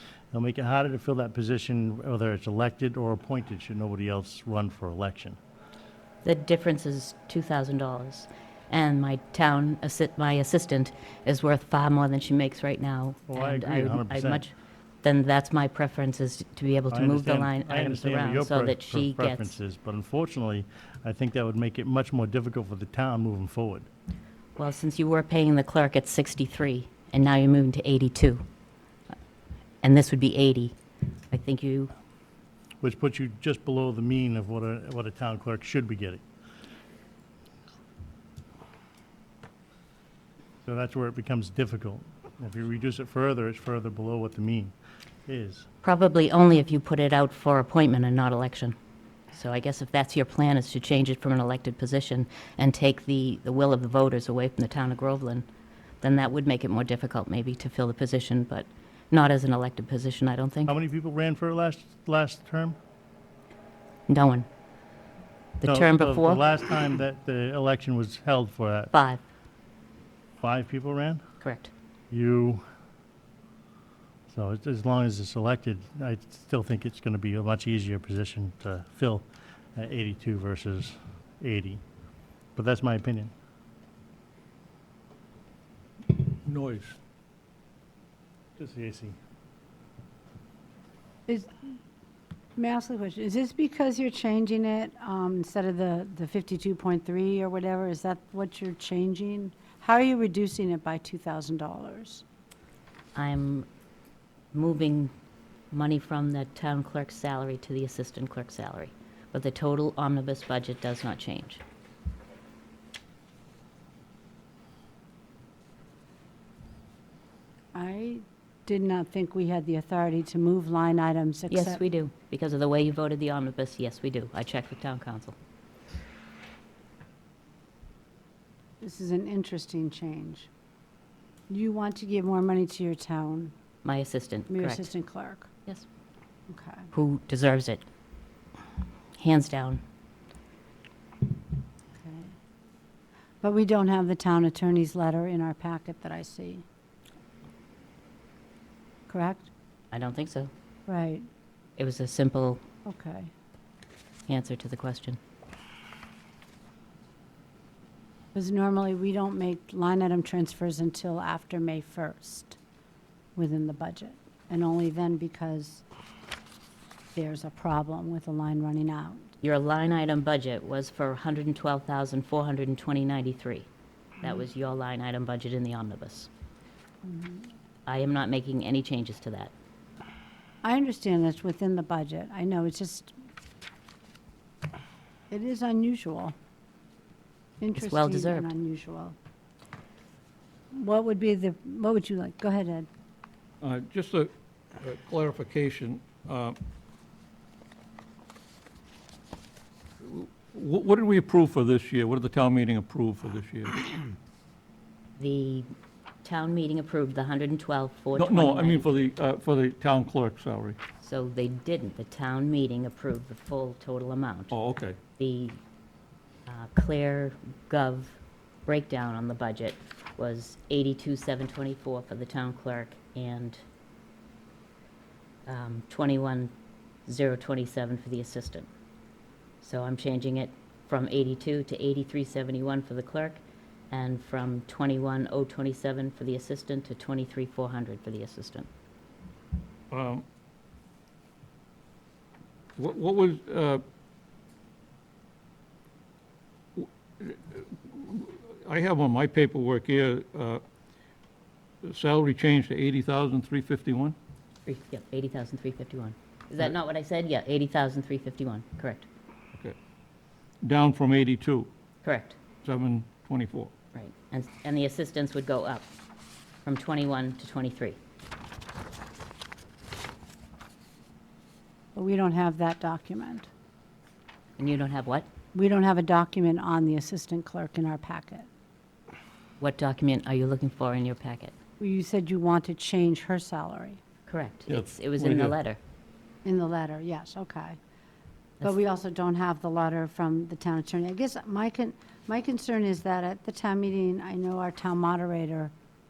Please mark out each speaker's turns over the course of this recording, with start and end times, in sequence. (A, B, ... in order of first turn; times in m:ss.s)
0:00.3-0:05.4 A
0:06.2-0:19.5 B
0:13.3-0:14.4 A
0:16.9-0:23.9 A
0:24.6-0:28.4 B
0:29.8-0:30.8 B
0:31.3-0:31.9 B
0:32.8-0:36.2 A
0:40.6-0:44.7 A
0:45.3-0:45.7 A
0:45.8-0:48.8 B
0:49.3-0:55.4 B
0:56.0-1:00.7 B
1:00.7-1:02.8 A
1:04.1-1:04.5 B
1:05.6-1:06.4 B
1:05.6-1:08.9 A
1:08.9-1:09.2 B
1:10.4-1:11.2 A
1:11.4-1:11.7 B
1:12.1-1:12.6 A
1:14.3-1:21.8 A
1:22.6-1:23.3 A
1:26.1-1:27.0 C
1:28.6-1:29.2 A
1:32.6-1:42.2 D
1:43.1-1:43.7 B
1:44.5-1:45.1 B
1:45.7-1:51.6 B
1:57.7-2:01.8 D
2:01.5-2:05.4 B
2:08.8-2:10.5 D
2:11.5-2:13.5 D
2:13.8-2:14.9 B
2:14.5-2:15.5 D
2:16.5-2:16.9 D
2:16.9-2:17.8 B
2:19.2-2:19.8 B
2:21.9-2:22.3 D
2:23.4-2:26.6 D
2:29.1-2:29.5 D
2:29.9-2:30.5 B
2:30.9-2:31.3 D
2:31.8-2:32.6 B
2:32.8-2:33.3 D
2:34.3-2:35.2 B
2:38.3-2:42.6 D
2:43.3-2:45.8 D
2:47.1-2:49.3 D
2:49.4-2:53.7 B
2:54.2-2:56.3 B
2:57.0-2:57.5 D
2:57.8-2:59.5 B
3:00.6-3:03.1 D
3:05.3-3:06.3 D
3:07.6-3:09.2 D
3:07.8-3:08.5 B
3:10.7-3:12.9 D
3:13.6-3:16.6 C
3:20.0-3:23.9 C
3:25.2-3:25.7 B
3:26.2-3:28.9 B
3:28.1-3:30.8 C
3:31.0-3:34.6 B
3:34.5-3:35.0 C
3:35.2-3:35.6 B
3:36.5-3:43.6 B
3:45.5-3:46.5 B
3:47.0-3:48.7 B
3:49.6-3:58.7 B
3:59.9-4:00.2 C
4:02.8-4:03.8 C
4:06.8-4:10.6 C
4:11.8-4:14.2 C
4:14.6-4:19.1 B
4:20.6-4:21.7 C
4:22.0-4:22.4 B
4:22.6-4:23.7 C
4:23.9-4:25.9 B
4:26.6-4:28.0 B
4:31.9-4:33.5 D
4:34.6-4:35.3 B
4:35.5-4:38.5 D
4:39.6-4:41.5 B
4:41.8-4:44.0 D
4:44.3-4:45.8 B
4:44.7-4:45.6 C
4:46.4-4:47.8 D
4:48.6-4:55.7 D